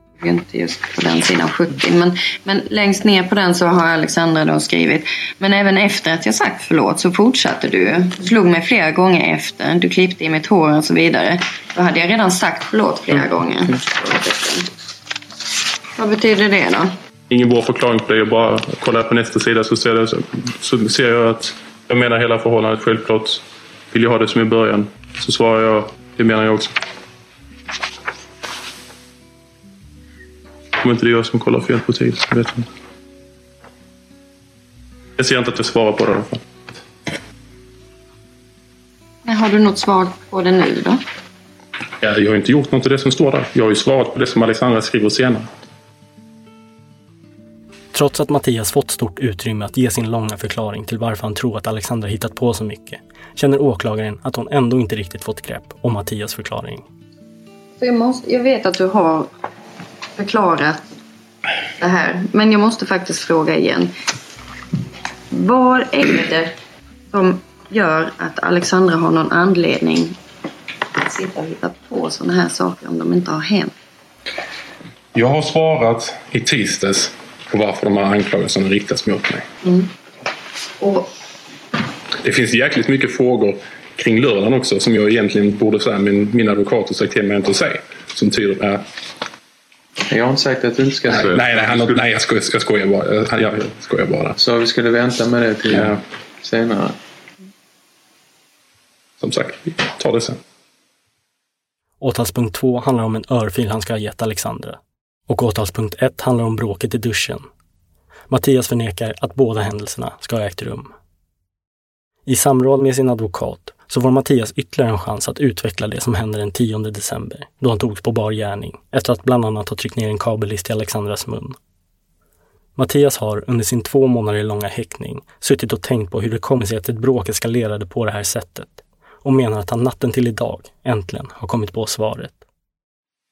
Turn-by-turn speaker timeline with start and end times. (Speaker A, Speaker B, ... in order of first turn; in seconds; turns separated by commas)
Speaker A: 0.2-14.7, Speaker A: 16.0-16.9, Speaker B: 17.3-26.8, Speaker B: 30.8-32.7, Speaker B: 35.2-36.4, Speaker A: 39.3-41.0, Speaker B: 42.0-45.5, Speaker C: 47.9-56.9, Speaker A: 57.8-59.3, Speaker A: 60.2-60.9, Speaker A: 61.8-63.9, Speaker A: 65.3-66.5, Speaker A: 67.1-70.2, Speaker A: 71.0-73.7, Speaker B: 75.1-79.5, Speaker A: 79.6-79.9, Speaker A: 80.8-81.1, Speaker B: 82.2-88.8, Speaker D: 90.1-92.0, Speaker B: 91.1-94.4, Speaker D: 94.4-97.0, Speaker B: 99.2-100.4, Speaker C: 102.0-107.5, Speaker C: 108.3-110.9, Speaker C: 112.3-121.6, Speaker C: 122.8-132.4